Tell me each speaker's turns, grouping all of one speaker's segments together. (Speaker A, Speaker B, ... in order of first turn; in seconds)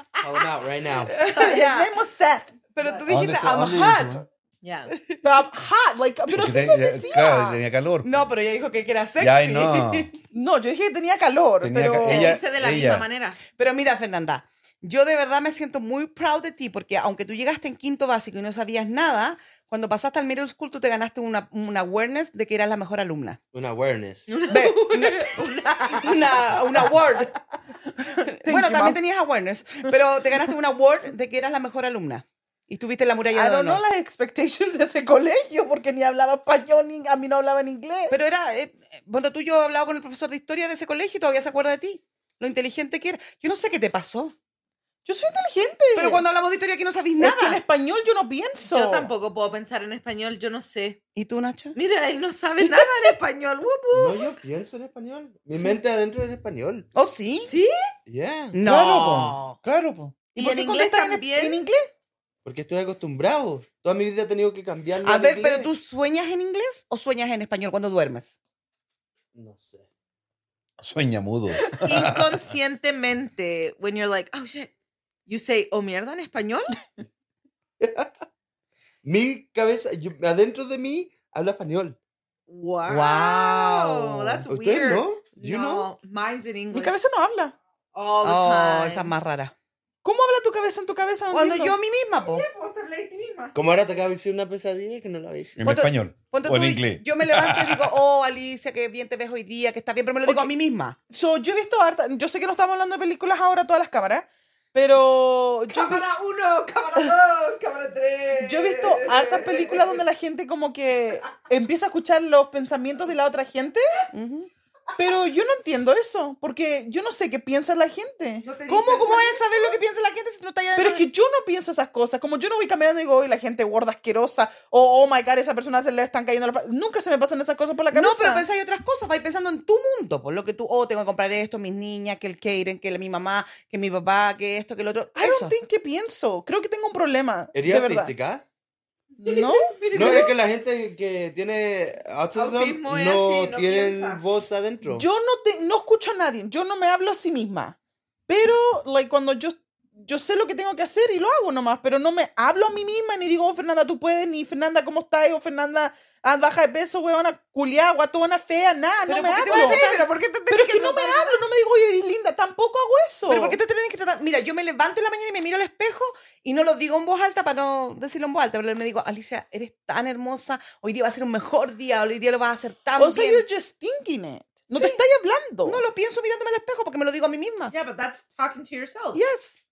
Speaker A: 0.2-1.2, 23.5-24.4, 53.9-56.9, 58.1-58.6, 62.5-65.7, 69.3-69.9, 77.8-78.1, 79.0-82.0, 84.5-85.9, 93.5-95.7, 137.5-138.4, 139.9-145.1
Speaker B: 1.2-2.6, 5.2-7.6, 10.3-12.4, 28.0-29.0, 33.3-38.1, 45.0-46.2, 47.2-49.1, 60.4-61.9, 86.7-87.5, 90.0-91.8, 101.1-106.0, 108.4-114.0, 115.0-118.5, 120.8-128.5, 135.2-138.1, 139.2-140.2, 144.9-147.8, 148.3-163.6, 173.0-175.8
Speaker C: 1.2-1.8, 4.6-4.9, 12.0-13.4, 24.3-26.5, 48.6-51.0, 51.8-54.3, 57.4-57.7, 60.4-61.6, 71.7-74.7, 75.3-76.8, 82.5-87.0, 87.9-89.1, 92.2-93.6, 105.7-110.0, 118.4-119.4, 139.2-140.3, 142.3-144.2, 159.5-160.0, 177.7-179.2
Speaker D: 1.2-1.9, 2.7-4.2, 4.9-5.2, 8.0-10.2, 13.6-23.4, 24.5-25.4, 26.0-27.3, 28.2-33.8, 38.1-44.3, 46.0-47.6, 51.2-51.8, 57.0-57.5, 58.5-59.6, 65.0-68.4, 82.9-84.4, 88.2-89.5, 91.3-92.5, 95.6-101.0, 114.1-114.5, 118.7-121.1, 127.9-135.6, 159.1-161.4, 163.3-173.4, 174.7-175.0, 175.6-177.7, 179.2-179.6
Speaker E: 3.1-4.3, 6.3-8.3, 9.2-10.1, 11.6-13.1, 58.6-60.2, 70.8-72.4, 95.6-98.0